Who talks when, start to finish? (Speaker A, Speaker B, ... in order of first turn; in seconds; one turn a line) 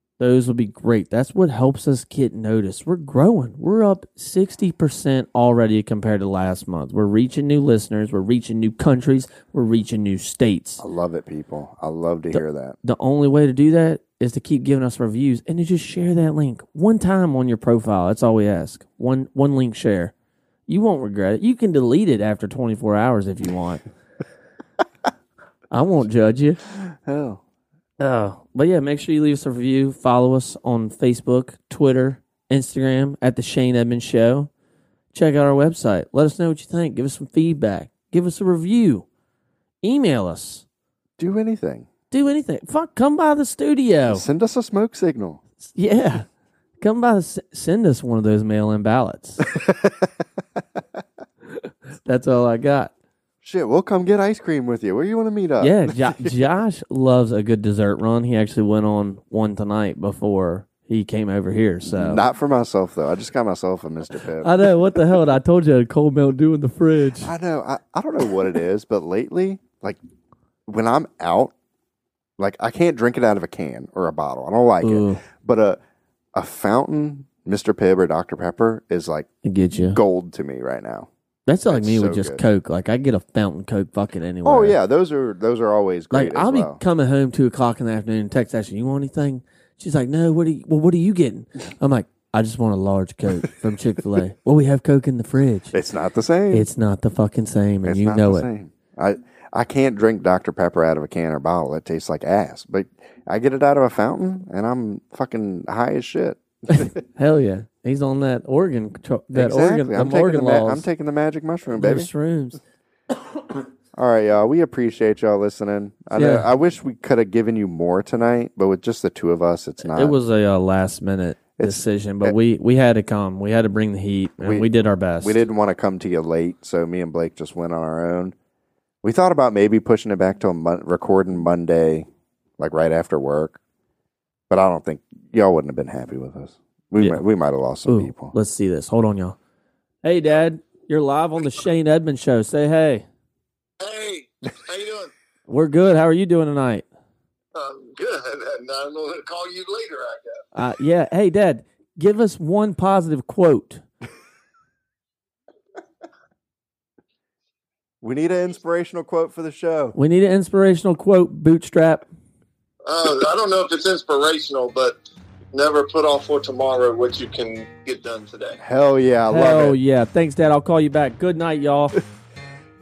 Speaker A: 0.2-10.8
Speaker B: 10.8-12.8
Speaker A: 12.3-20.1
Speaker A: 20.7-23.8
Speaker A: 25.7-26.6
Speaker B: 27.0-27.4
Speaker A: 28.0-34.5
Speaker A: 35.1-39.1
Speaker A: 39.8-40.6
Speaker B: 41.2-41.9
Speaker A: 42.1-44.2
Speaker B: 44.1-45.4
Speaker A: 45.6-46.3
Speaker A: 46.8-49.5
Speaker B: 49.6-49.9
Speaker A: 52.0-52.9
Speaker B: 53.4-56.3
Speaker A: 55.6-62.2
Speaker B: 61.8-64.6
Speaker A: 64.4-67.3
Speaker B: 67.2-70.0
Speaker B: 70.7-71.5
Speaker B: 72.4-75.8
Speaker A: 74.8-75.2
Speaker B: 76.3-79.3
Speaker A: 79.4-80.0
Speaker B: 79.8-81.1
Speaker A: 81.5-84.8
Speaker B: 81.7-82.4
Speaker B: 84.5-86.8
Speaker A: 86.1-95.8
Speaker B: 95.7-96.7
Speaker A: 96.5-98.5
Speaker B: 97.8-107.0
Speaker A: 106.8-110.9
Speaker B: 109.3-112.1
Speaker A: 111.7-112.6
Speaker B: 114.0-120.2
Speaker A: 116.1-116.5
Speaker A: 119.9-125.4
Speaker B: 121.6-122.3
Speaker B: 124.4-124.7
Speaker B: 125.2-128.3
Speaker B: 129.0-132.1
Speaker B: 132.6-133.6
Speaker B: 134.5-138.3
Speaker A: 137.9-139.4
Speaker A: 140.0-143.1
Speaker C: 143.8-145.1
Speaker A: 145.5-146.9
Speaker C: 147.6-150.5
Speaker A: 150.6-153.8
Speaker B: 158.0-160.0
Speaker A: 159.9-162.1
Speaker C: 162.9-165.0
Speaker C: 165.5-168.6
Speaker B: 168.6-169.8
Speaker A: 169.3-171.9